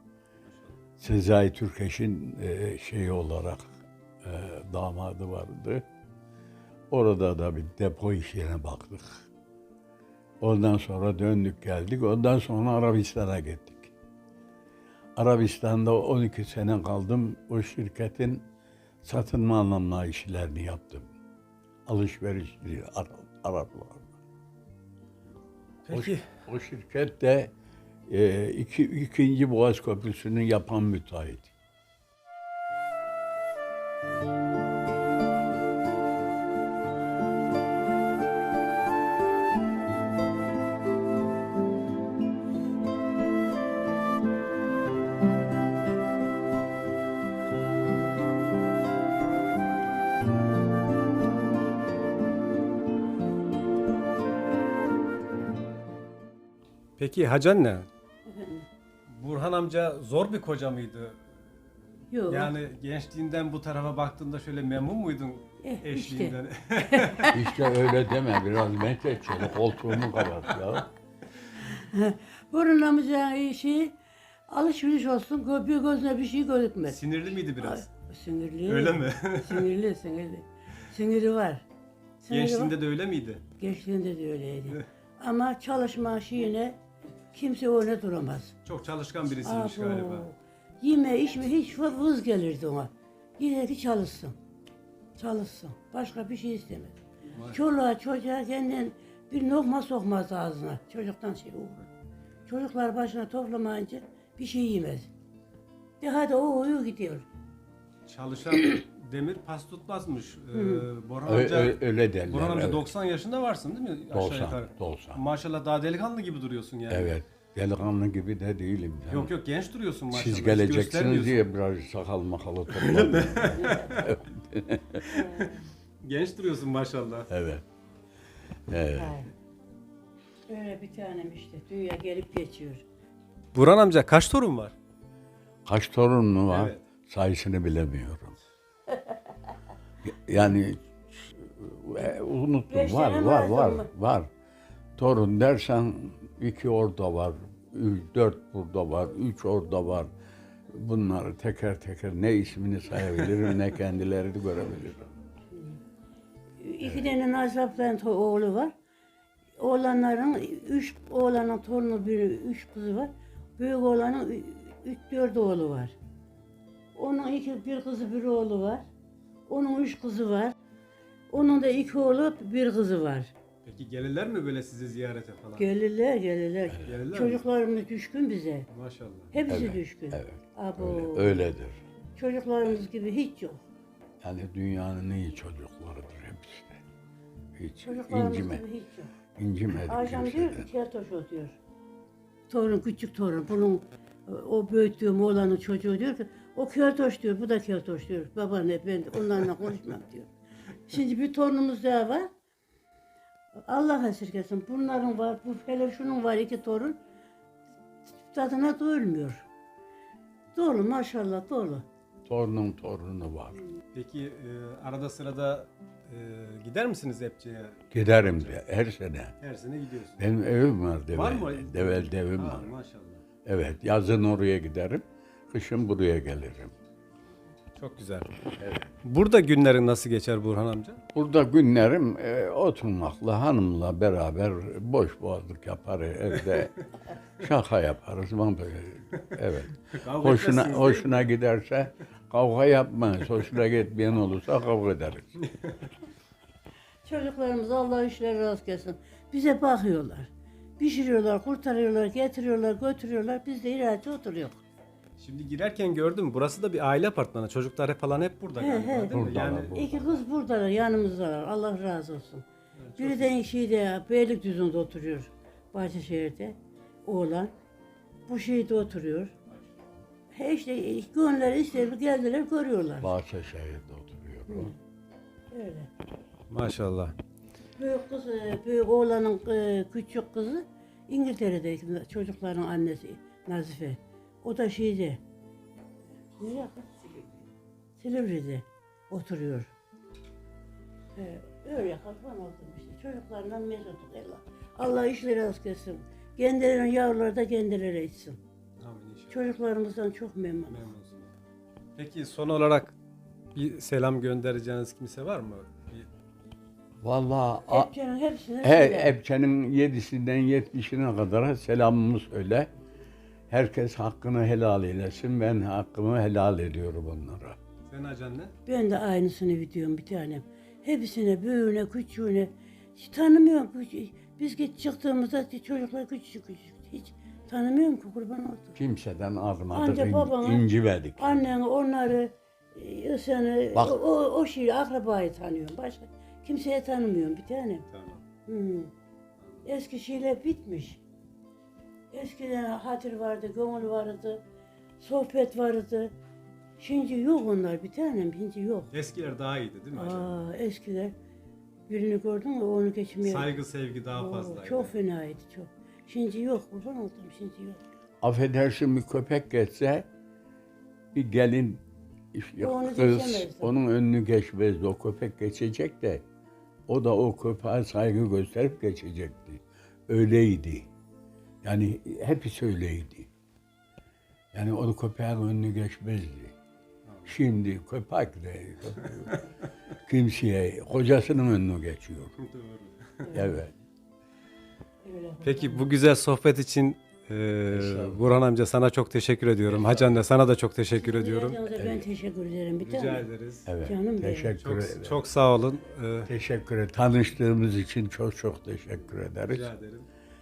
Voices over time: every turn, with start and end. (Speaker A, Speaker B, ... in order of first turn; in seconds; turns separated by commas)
Speaker A: 0.4-0.8, Speaker B: 1.0-3.7, Speaker B: 4.2-5.8, Speaker B: 6.9-9.3, Speaker B: 10.4-13.9, Speaker B: 15.2-18.4, Speaker B: 19.0-21.1, Speaker B: 21.9-24.1, Speaker A: 25.8-26.2, Speaker B: 25.9-27.5, Speaker B: 28.1-31.5, Speaker A: 57.0-57.9, Speaker C: 58.3-58.6, Speaker A: 59.1-61.4, Speaker C: 62.1-62.5, Speaker A: 62.2-67.5, Speaker C: 65.6-67.4, Speaker B: 67.3-70.9, Speaker C: 71.6-74.0, Speaker C: 74.5-77.0, Speaker A: 76.9-77.9, Speaker C: 77.5-81.6, Speaker A: 78.7-79.7, Speaker C: 82.2-82.8, Speaker A: 82.3-83.4, Speaker C: 83.6-86.8, Speaker C: 87.3-88.5, Speaker A: 88.6-90.3, Speaker C: 89.4-94.3, Speaker C: 95.2-101.9, Speaker A: 97.3-97.6, Speaker C: 102.5-105.1, Speaker C: 106.0-107.2, Speaker A: 108.1-117.1, Speaker C: 110.5-110.9, Speaker B: 111.2-112.9, Speaker B: 114.1-115.2, Speaker B: 116.9-119.3, Speaker A: 119.1-121.4, Speaker B: 120.1-125.2, Speaker A: 122.7-124.2, Speaker C: 123.5-123.9, Speaker C: 125.1-125.7, Speaker A: 125.2-125.5, Speaker A: 126.0-127.3, Speaker B: 127.3-127.6, Speaker B: 128.7-129.2, Speaker C: 128.9-129.3, Speaker C: 130.5-132.8, Speaker A: 133.5-134.7, Speaker B: 135.7-138.3, Speaker A: 136.5-136.8, Speaker C: 138.9-139.2, Speaker B: 140.0-144.3, Speaker C: 142.7-143.9, Speaker B: 145.0-150.1, Speaker B: 150.7-155.0, Speaker A: 153.1-153.4, Speaker C: 156.6-158.7, Speaker C: 159.6-165.9, Speaker C: 166.9-168.8, Speaker C: 169.5-170.5, Speaker C: 171.3-173.3, Speaker A: 173.6-175.7, Speaker C: 175.6-178.7, Speaker A: 176.8-177.4, Speaker A: 178.7-179.3, Speaker C: 179.3-181.5, Speaker B: 179.5-181.8, Speaker C: 182.2-183.6, Speaker B: 184.2-186.8, Speaker B: 187.6-188.6, Speaker C: 187.8-189.1, Speaker B: 189.4-190.7, Speaker C: 189.8-191.6, Speaker C: 192.5-200.3, Speaker C: 200.9-202.3, Speaker C: 203.7-207.0, Speaker C: 208.2-209.5, Speaker C: 210.5-211.8, Speaker B: 212.2-213.6, Speaker A: 213.9-218.6, Speaker B: 217.9-219.3, Speaker A: 219.4-220.2, Speaker B: 220.2-222.7, Speaker A: 221.1-223.2, Speaker B: 223.4-226.7, Speaker A: 227.8-228.3, Speaker B: 228.6-228.9, Speaker A: 229.0-231.0, Speaker B: 231.1-236.8, Speaker B: 237.4-245.3, Speaker A: 240.0-241.3, Speaker C: 247.0-254.6, Speaker A: 255.2-259.9, Speaker C: 258.6-262.4, Speaker B: 259.1-260.1, Speaker A: 262.8-263.4, Speaker C: 263.0-267.5, Speaker C: 268.3-269.3, Speaker C: 270.3-273.1, Speaker B: 273.0-274.7, Speaker C: 274.5-274.7, Speaker C: 275.5-275.9, Speaker A: 276.5-277.1, Speaker C: 277.8-285.2, Speaker C: 286.4-287.2, Speaker C: 288.0-289.7, Speaker C: 291.1-298.4, Speaker A: 298.8-299.5, Speaker C: 299.3-300.9, Speaker A: 300.7-301.3, Speaker A: 301.9-302.9, Speaker A: 303.5-306.1, Speaker B: 307.0-307.9, Speaker C: 307.7-309.2, Speaker B: 308.6-312.7, Speaker B: 313.5-317.6, Speaker A: 317.9-318.5, Speaker C: 318.6-328.8, Speaker B: 328.8-331.4, Speaker C: 329.7-337.8, Speaker A: 337.9-338.2, Speaker C: 338.5-338.9, Speaker C: 339.6-341.0, Speaker C: 342.1-344.4, Speaker C: 345.0-346.1, Speaker C: 346.8-348.9, Speaker A: 348.9-350.4, Speaker C: 349.9-351.1, Speaker C: 351.9-353.5, Speaker A: 353.2-354.9, Speaker C: 354.1-357.8, Speaker B: 358.2-360.1, Speaker B: 361.1-361.8, Speaker B: 362.3-366.2, Speaker C: 362.6-363.7, Speaker B: 366.9-370.9, Speaker B: 371.6-373.3, Speaker B: 374.5-376.5, Speaker A: 377.1-377.4, Speaker B: 377.2-379.3, Speaker A: 379.0-379.7, Speaker B: 380.1-382.3, Speaker A: 382.4-383.3, Speaker C: 383.2-383.6, Speaker B: 383.3-383.7, Speaker C: 385.0-385.9, Speaker A: 385.4-391.6, Speaker B: 387.7-388.2, Speaker B: 389.7-390.2, Speaker C: 390.9-393.3, Speaker B: 391.7-392.1, Speaker A: 392.8-393.7, Speaker B: 393.6-395.3, Speaker C: 393.8-394.5, Speaker A: 394.6-396.3, Speaker B: 396.2-399.7, Speaker A: 399.5-400.1